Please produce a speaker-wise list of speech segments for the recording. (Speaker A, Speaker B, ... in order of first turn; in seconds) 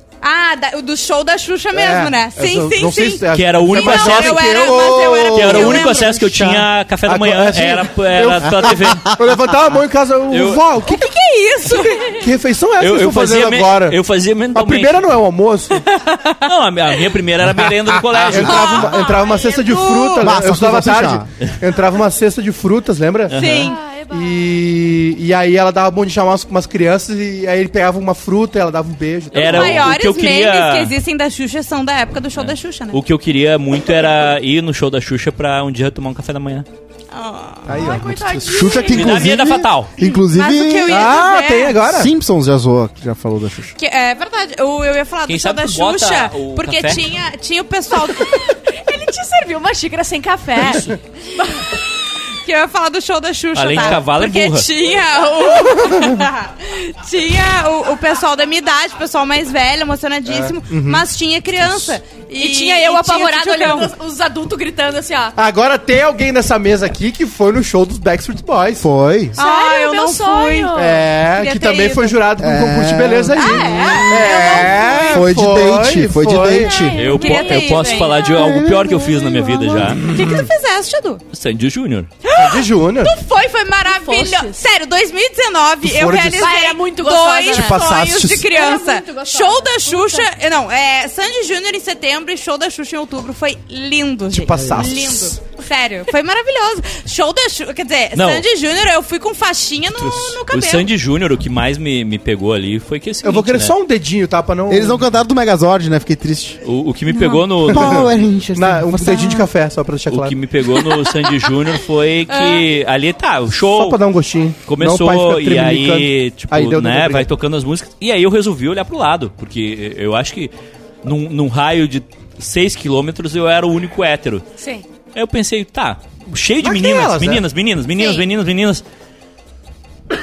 Speaker A: 0.2-6.1, 10.8-12.3, 15.9-16.5, 18.3-20.3, 23.3-23.8, 29.4-33.0, 37.1-37.8, 40.0-41.8, 43.8-48.5, 51.5-51.8, 52.4-63.9, 69.3-70.8, 71.4-72.2, 73.3-75.0, 77.1-78.5, 79.7-81.2, 82.2-100.9, 112.3-112.7, 128.0-128.2
Speaker B: 1.7-11.1, 12.0-14.0, 14.5-15.9, 17.7-30.0, 40.9-42.1, 55.8-56.1, 60.3-61.0, 65.4-68.9, 70.8-76.9, 82.3-83.1, 85.8-86.5, 87.5-88.5, 94.3-95.3, 103.2-105.0, 107.7-110.4, 113.6-117.3, 126.6-127.4
Speaker C: 3.3-9.2, 10.3-10.6, 12.8-15.1, 16.4-19.0, 23.3-23.8, 29.3-30.9, 32.4-36.7, 38.9-39.9, 45.3-47.0, 53.5-54.7, 77.0-80.1, 81.3-82.1, 98.2-98.5, 100.5-103.7, 106.6-108.1, 110.1-114.0, 114.7-120.5, 121.0-124.5, 125.1-128.8
Speaker D: 20.2-21.3, 37.7-41.1, 41.8-43.7, 68.8-69.3, 72.4-74.1, 75.1-77.0, 78.4-79.4, 104.7-106.6, 107.6-109.5
Speaker E: 23.6-24.6, 37.7-39.3, 48.7-51.7, 62.4-65.3, 69.4-71.1, 73.7-75.3, 76.4-78.3, 83.8-84.6, 86.4-90.3, 124.6-124.8